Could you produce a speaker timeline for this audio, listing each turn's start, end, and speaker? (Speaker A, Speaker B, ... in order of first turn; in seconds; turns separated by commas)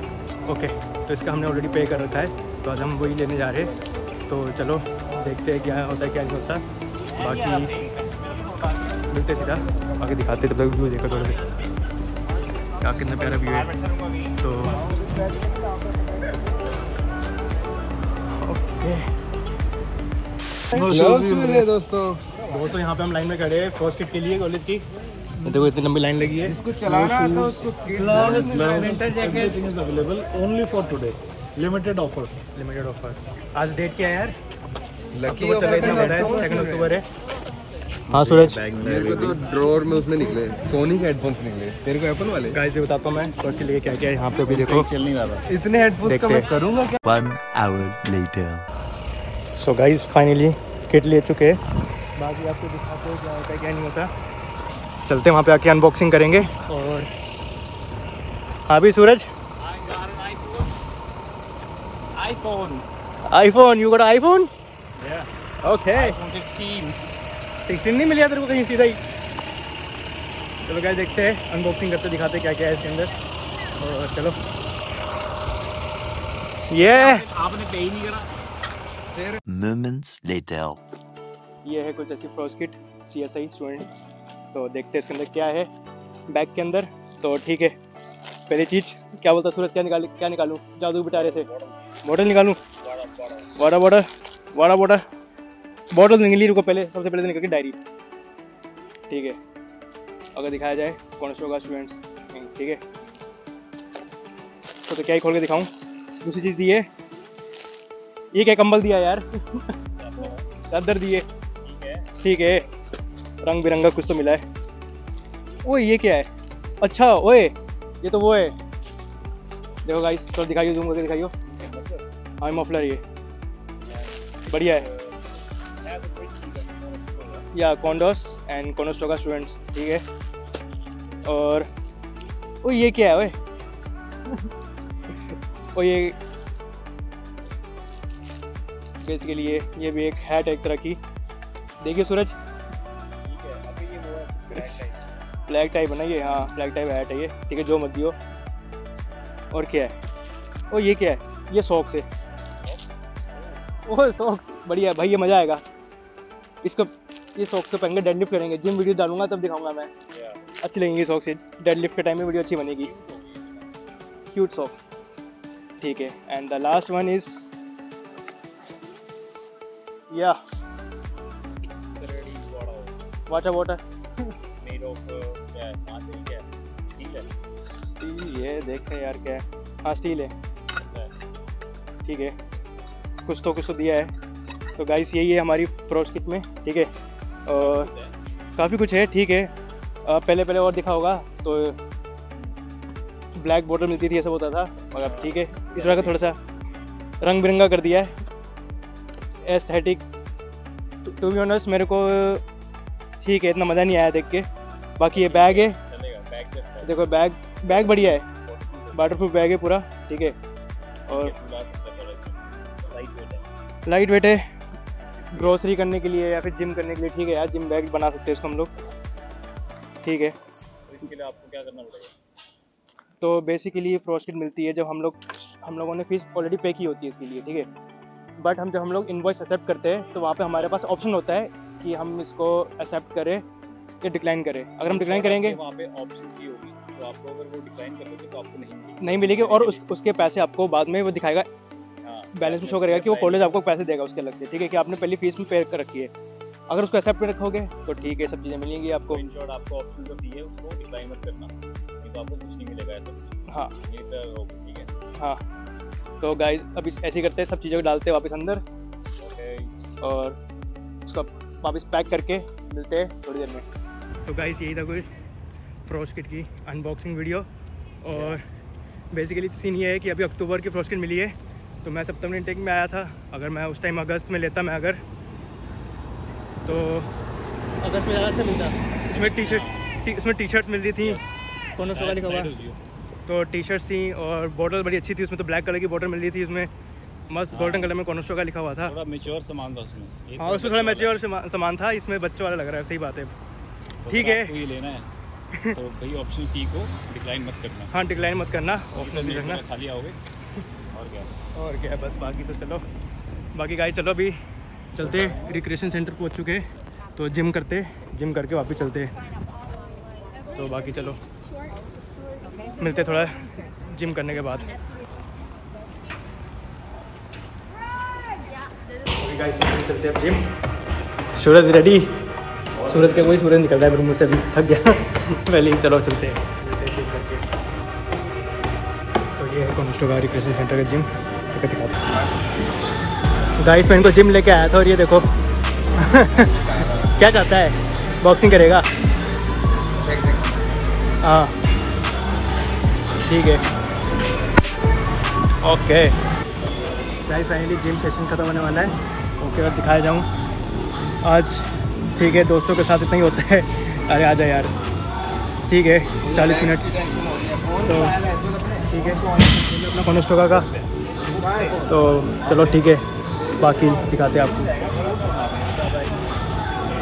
Speaker A: 0.4-3.7, Speaker A: 4.3-6.6, Speaker A: 7.2-7.7, Speaker B: 7.5-8.7, Speaker A: 9.1-11.4, Speaker A: 12.8-13.7, Speaker B: 13.7-14.1, Speaker A: 14.4-14.8, Speaker A: 18.4-19.1, Speaker C: 20.7-21.6, Speaker D: 20.7-22.3, Speaker A: 22.5-24.8, Speaker A: 25.4-26.6, Speaker D: 26.4-29.0, Speaker C: 26.9-32.3, Speaker A: 28.0-29.6, Speaker A: 32.5-34.3, Speaker D: 35.1-36.9, Speaker A: 35.2-37.0, Speaker A: 38.1-38.6, Speaker B: 38.3-39.4, Speaker D: 38.8-42.6, Speaker A: 42.5-44.9, Speaker B: 44.3-45.4, Speaker D: 45.5-47.0, Speaker A: 46.0-46.5, Speaker E: 47.0-48.7, Speaker A: 49.6-51.6, Speaker A: 52.1-54.1, Speaker A: 55.0-57.1, Speaker A: 58.7-59.3, Speaker B: 59.6-60.7, Speaker B: 62.1-62.9, Speaker A: 63.3-64.5, Speaker B: 65.0-65.3, Speaker A: 65.6-66.2, Speaker B: 65.9-67.0, Speaker A: 67.6-69.0, Speaker A: 70.6-73.1, Speaker A: 73.8-74.4, Speaker A: 76.7-77.2, Speaker B: 76.9-78.3, Speaker D: 79.1-79.4, Speaker E: 79.5-80.8, Speaker A: 81.6-83.9, Speaker A: 84.5-85.7, Speaker A: 86.3-87.7, Speaker A: 88.5-91.5, Speaker B: 91.1-91.8, Speaker A: 92.0-92.6, Speaker B: 92.8-93.5, Speaker A: 93.5-95.0, Speaker A: 95.9-97.8, Speaker A: 99.1-99.4, Speaker A: 100.3-102.8, Speaker A: 104.9-105.7, Speaker A: 106.2-106.9, Speaker A: 108.3-109.7, Speaker B: 110.0-110.4, Speaker A: 110.7-111.2, Speaker B: 111.6-112.1, Speaker A: 112.2-112.6, Speaker A: 113.4-114.4, Speaker A: 115.6-116.3, Speaker A: 116.8-118.5, Speaker A: 119.8-121.3, Speaker B: 121.5-122.0, Speaker A: 122.4-123.0, Speaker B: 123.8-127.4, Speaker A: 124.5-124.8, Speaker A: 127.5-130.0, Speaker A: 131.2-131.7, Speaker A: 132.6-133.3, Speaker A: 135.7-136.2, Speaker A: 139.0-141.0, Speaker A: 141.8-142.3, Speaker B: 143.2-145.1, Speaker A: 145.5-148.2, Speaker A: 149.5-149.9, Speaker A: 150.7-152.1, Speaker B: 152.6-153.6, Speaker A: 153.8-155.6, Speaker A: 156.6-159.9, Speaker B: 160.1-160.4, Speaker A: 160.6-162.9, Speaker B: 162.8-163.7, Speaker A: 164.3-164.9, Speaker A: 165.8-167.5, Speaker A: 170.1-170.4, Speaker B: 171.9-172.9, Speaker A: 173.3-173.8, Speaker B: 174.6-177.3, Speaker A: 178.0-180.3, Speaker B: 180.8-181.1, Speaker A: 182.0-182.3, Speaker A: 183.2-184.1, Speaker A: 184.8-186.9, Speaker A: 187.5-187.9, Speaker B: 187.5-188.1, Speaker A: 188.6-189.5, Speaker A: 190.0-191.8, Speaker A: 193.3-196.4, Speaker B: 195.0-196.2, Speaker A: 197.2-198.1, Speaker A: 199.4-200.0, Speaker A: 201.0-202.4, Speaker A: 203.2-204.4, Speaker A: 205.0-205.7, Speaker B: 205.1-207.1, Speaker A: 206.8-208.2, Speaker B: 207.7-209.2, Speaker A: 208.9-210.3, Speaker B: 211.1-213.5, Speaker A: 213.8-214.4, Speaker B: 215.0-215.6, Speaker A: 215.3-218.7, Speaker A: 220.0-220.3, Speaker B: 220.9-222.1, Speaker A: 223.2-227.7, Speaker A: 228.4-233.4, Speaker A: 234.0-235.6, Speaker B: 234.8-239.8, Speaker A: 239.0-241.5, Speaker B: 242.0-243.6, Speaker A: 242.3-246.1, Speaker A: 246.7-249.2, Speaker B: 249.0-254.9, Speaker A: 253.5-253.8, Speaker A: 256.2-258.6, Speaker B: 259.2-259.7, Speaker A: 260.0-260.4, Speaker A: 261.1-263.6, Speaker A: 264.3-265.1, Speaker A: 265.9-267.5, Speaker A: 268.0-268.4, Speaker B: 268.1-268.4, Speaker A: 269.1-275.0, Speaker A: 276.6-277.1, Speaker A: 277.8-281.2, Speaker B: 279.2-279.9, Speaker B: 281.0-282.8, Speaker A: 281.8-282.5, Speaker A: 283.3-286.7, Speaker A: 287.3-288.9, Speaker B: 287.5-287.9, Speaker B: 288.8-291.1, Speaker A: 290.4-293.3, Speaker B: 294.0-295.1, Speaker A: 294.1-294.5, Speaker B: 295.7-297.9, Speaker A: 297.9-299.6, Speaker B: 298.9-300.2, Speaker B: 300.9-301.3, Speaker A: 301.5-302.8, Speaker A: 303.5-304.4, Speaker A: 304.9-306.6, Speaker A: 307.1-309.1, Speaker A: 310.5-311.2, Speaker A: 312.8-314.8, Speaker A: 319.1-320.4, Speaker A: 321.3-322.1, Speaker A: 322.8-327.4, Speaker A: 329.4-332.0, Speaker A: 333.6-335.2, Speaker A: 335.9-338.9, Speaker D: 336.6-337.0, Speaker D: 340.1-340.4, Speaker A: 341.2-341.5, Speaker A: 343.2-343.6, Speaker A: 345.6-346.1, Speaker A: 347.2-350.3, Speaker A: 351.2-354.7, Speaker A: 355.7-356.9, Speaker D: 356.2-359.5, Speaker A: 357.8-358.1, Speaker A: 358.9-360.7, Speaker D: 361.3-361.9, Speaker A: 361.3-363.0, Speaker A: 363.6-364.8, Speaker B: 364.7-366.3